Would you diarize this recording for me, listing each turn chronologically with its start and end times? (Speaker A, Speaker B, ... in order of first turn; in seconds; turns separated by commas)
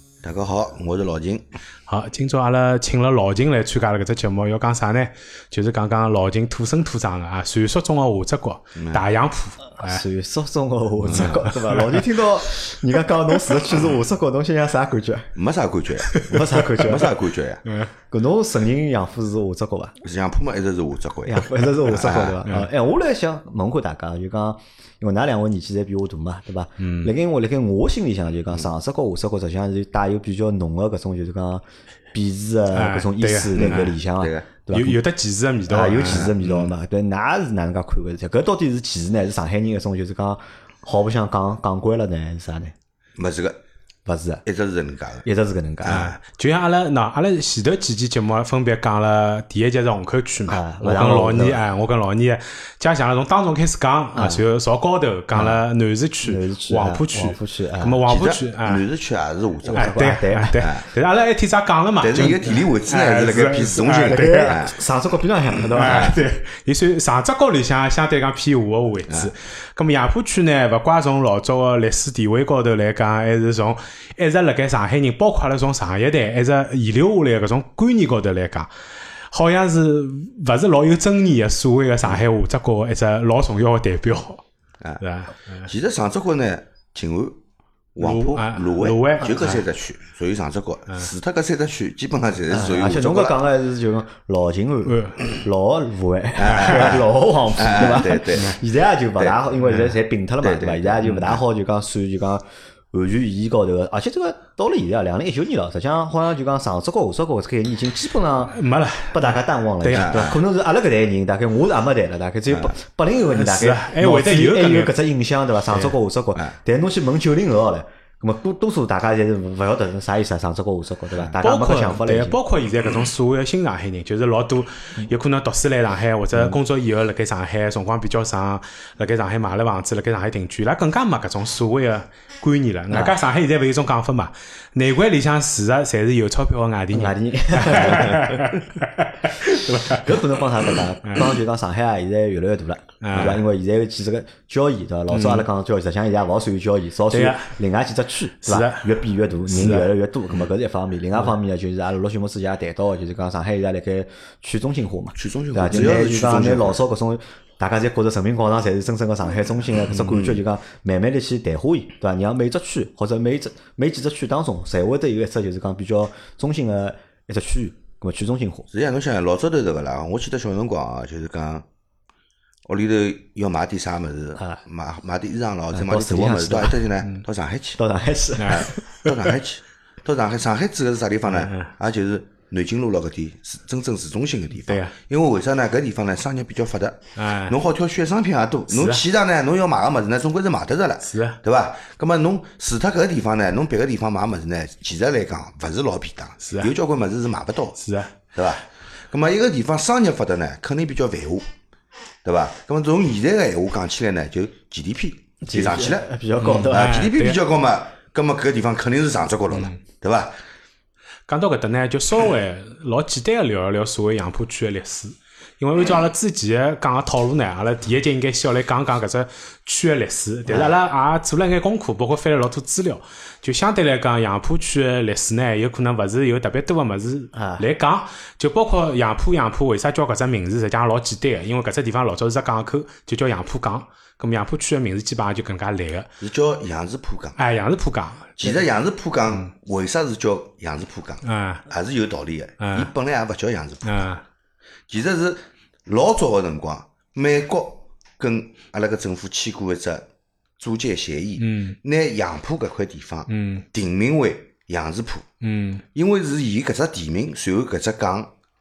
Speaker A: 0.2-1.4, Speaker B: 1.9-10.0, Speaker A: 8.8-9.0, Speaker C: 9.8-15.3, Speaker B: 11.0-12.0, Speaker A: 15.4-17.6, Speaker B: 16.1-16.4, Speaker C: 16.2-17.1, Speaker C: 18.1-20.0, Speaker A: 20.0-22.4, Speaker C: 21.2-35.0, Speaker B: 26.8-27.1, Speaker B: 32.7-34.0, Speaker A: 33.6-34.5, Speaker B: 34.7-36.6, Speaker C: 35.7-42.7, Speaker A: 36.1-36.4, Speaker A: 43.2-43.6, Speaker C: 44.1-44.4, Speaker A: 44.5-45.3, Speaker C: 45.2-46.1, Speaker A: 45.8-46.2, Speaker B: 45.9-58.8, Speaker C: 50.5-51.6, Speaker C: 54.1-54.4, Speaker C: 55.3-55.6, Speaker C: 56.2-58.0, Speaker A: 58.1-60.0, Speaker C: 59.6-60.6, Speaker B: 59.7-64.5, Speaker A: 60.6-60.8, Speaker A: 62.0-64.8, Speaker C: 64.1-66.2, Speaker A: 65.6-66.2, Speaker B: 65.8-78.7, Speaker B: 79.3-84.4, Speaker B: 85.0-85.7, Speaker A: 85.7-87.4, Speaker A: 88.0-93.4, Speaker B: 88.0-89.6, Speaker C: 92.5-108.6, Speaker B: 94.9-95.2, Speaker A: 96.4-98.5, Speaker B: 96.5-96.9, Speaker A: 100.4-101.4, Speaker B: 108.5-110.3, Speaker C: 109.1-122.4, Speaker A: 109.9-110.4, Speaker A: 112.5-112.8, Speaker B: 113.3-114.9, Speaker B: 121.4-141.3, Speaker C: 132.9-133.2, Speaker C: 136.9-138.5, Speaker C: 139.5-168.7, Speaker B: 143.0-143.4, Speaker B: 145.1-145.5, Speaker B: 147.1-147.5, Speaker B: 148.4-148.9, Speaker B: 149.5-149.9, Speaker A: 155.2-156.8, Speaker A: 160.0-160.4, Speaker A: 168.7-171.7, Speaker A: 172.7-177.8, Speaker C: 175.7-176.9, Speaker C: 177.8-178.8, Speaker B: 178.4-179.1, Speaker A: 178.5-197.8, Speaker B: 181.3-181.7, Speaker B: 184.7-184.9, Speaker B: 187.2-187.6, Speaker B: 188.7-189.0, Speaker B: 191.0-191.4, Speaker B: 196.4-196.7, Speaker B: 197.8-198.1, Speaker A: 198.3-201.4, Speaker A: 202.2-206.0, Speaker C: 205.5-206.9, Speaker B: 206.4-207.4, Speaker A: 206.7-210.3, Speaker B: 209.5-209.8, Speaker B: 211.3-236.1, Speaker C: 220.5-220.7, Speaker C: 227.3-227.7, Speaker A: 236.2-237.4, Speaker B: 237.4-238.4, Speaker A: 238.4-244.0, Speaker B: 241.2-241.6, Speaker B: 242.6-242.9, Speaker B: 243.8-244.2, Speaker A: 244.9-250.1, Speaker A: 250.6-255.3, Speaker B: 251.4-251.8, Speaker B: 253.3-253.7, Speaker B: 255.4-255.8, Speaker A: 255.9-258.3